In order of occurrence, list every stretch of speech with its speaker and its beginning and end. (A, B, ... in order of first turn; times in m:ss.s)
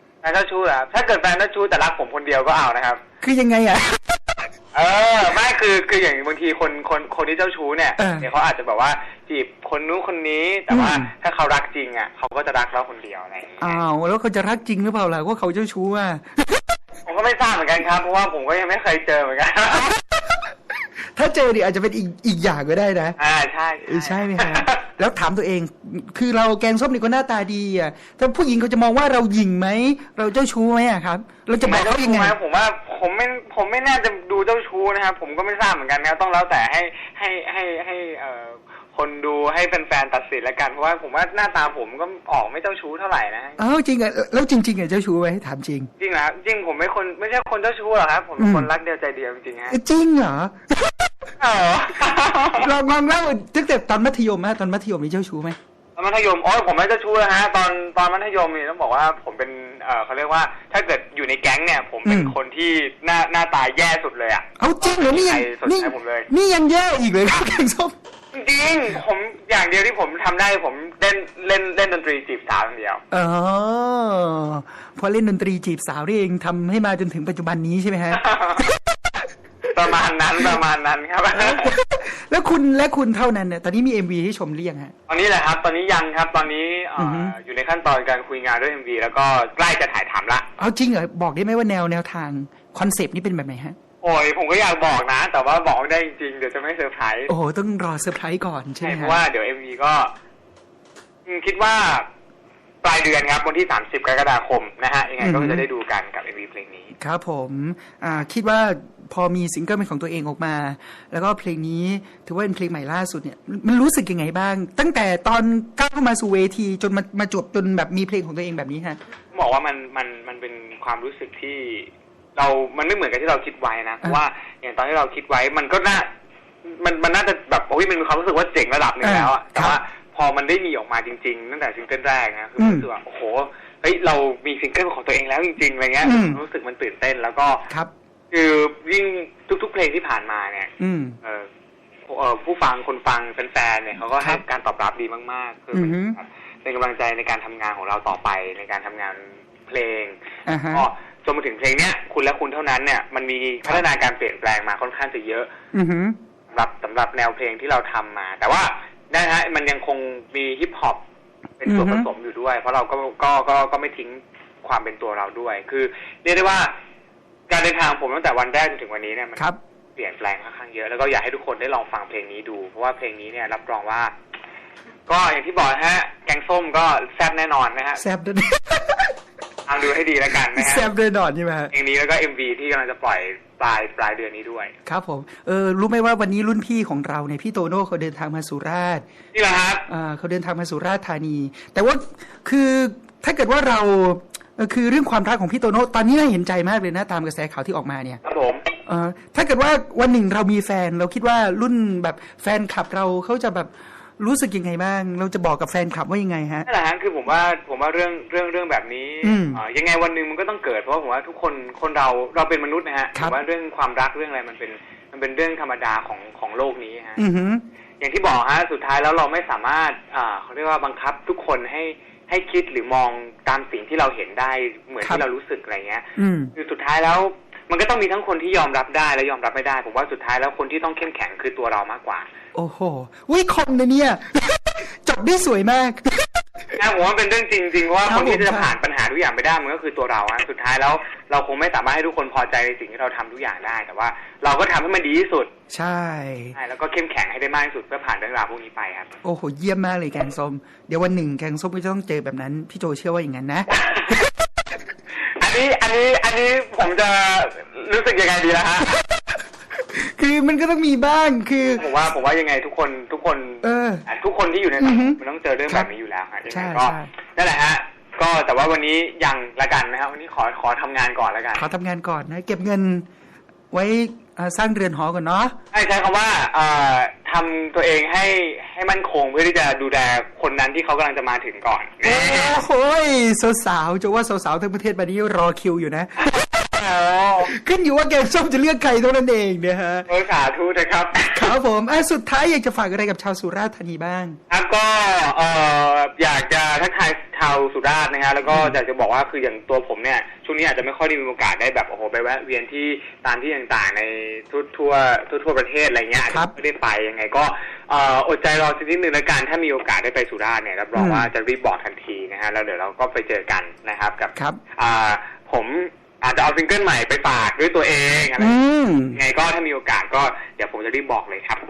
0:00.2-0:03.0 A
0:03.2-0:04.3 B
0:04.7-0:13.8 A
0:08.0-0:08.3 B
0:10.7-0:11.1 B
0:13.6-0:16.6 B
0:17.0-0:19.9 A
0:20.0-0:20.4 B
0:21.1-0:23.2 B
0:23.2-0:24.8 A
0:23.8-0:32.4 B
0:31.6-0:43.6 A
0:43.6-0:45.9 B
0:46.0-0:49.8 A
0:48.4-0:48.7 B
0:49.7-0:50.9 B
0:51.4-0:52.7 A
0:52.6-0:55.6 B
0:56.0-1:06.3 A
1:02.0-1:02.3 B
1:04.6-1:07.9 B
1:08.3-1:13.0 A
1:13.1-1:19.2 B
1:18.1-1:18.6 A
1:19.7-1:21.7 A
1:21.3-1:24.9 B
1:25.1-1:30.4 A
1:27.0-1:27.3 B
1:30.6-1:33.8 B
1:34.0-1:37.3 A
1:37.3-1:39.2 B
1:38.8-1:40.1 A
1:41.2-1:42.0 A
1:42.8-1:46.9 A
1:45.2-1:45.6 B
1:47.0-1:59.0 B
1:59.3-2:06.1 A
2:06.6-2:17.6 A
2:09.0-2:09.8 B
2:12.6-2:12.8 B
2:16.0-2:16.4 B
2:18.3-2:20.7 A
2:20.8-2:21.2 B
2:22.1-2:30.2 A
2:24.2-2:24.4 B
2:25.7-2:26.2 B
2:30.4-2:30.8 B
2:30.7-2:35.5 A
2:35.7-2:36.2 B
2:36.5-2:41.0 A
2:41.6-2:46.7 A
2:41.6-2:42.1 B
2:47.5-2:49.4 A
2:50.0-2:54.1 A
2:55.1-2:58.0 A
2:58.0-2:59.1 B
2:59.7-3:00.9 A
3:00.5-3:01.7 B
3:01.7-3:04.7 A
3:04.8-3:09.0 B
3:09.3-3:09.8 A
3:09.9-3:18.2 B
3:18.2-3:18.7 A
3:18.8-3:26.7 B
3:26.6-3:37.2 A
3:29.2-3:29.6 B
3:33.1-3:33.4 B
3:37.2-3:37.6 B
3:38.0-3:52.3 A
3:46.2-3:46.5 B
3:52.5-3:56.7 B
3:56.7-4:05.5 A
3:58.0-3:58.7 B
4:05.7-4:06.6 B
4:06.6-4:09.1 A
4:09.2-4:13.8 B
4:13.7-4:14.3 A
4:15.4-4:18.9 A
4:18.9-4:19.3 B
4:19.9-4:21.8 B
4:21.7-4:31.6 A
4:23.6-4:24.0 B
4:24.8-4:25.9 B
4:26.5-4:27.1 B
4:31.5-4:33.0 B
4:33.7-4:35.6 B
4:35.7-4:42.6 A
4:42.0-4:46.3 B
4:46.2-4:47.5 A
4:47.4-4:50.1 B
4:50.1-4:51.5 A
4:51.3-4:54.4 B
4:54.5-5:18.6 A
4:58.5-4:58.8 B
5:10.9-5:11.3 B
5:18.4-5:19.2 B
5:19.1-5:21.6 A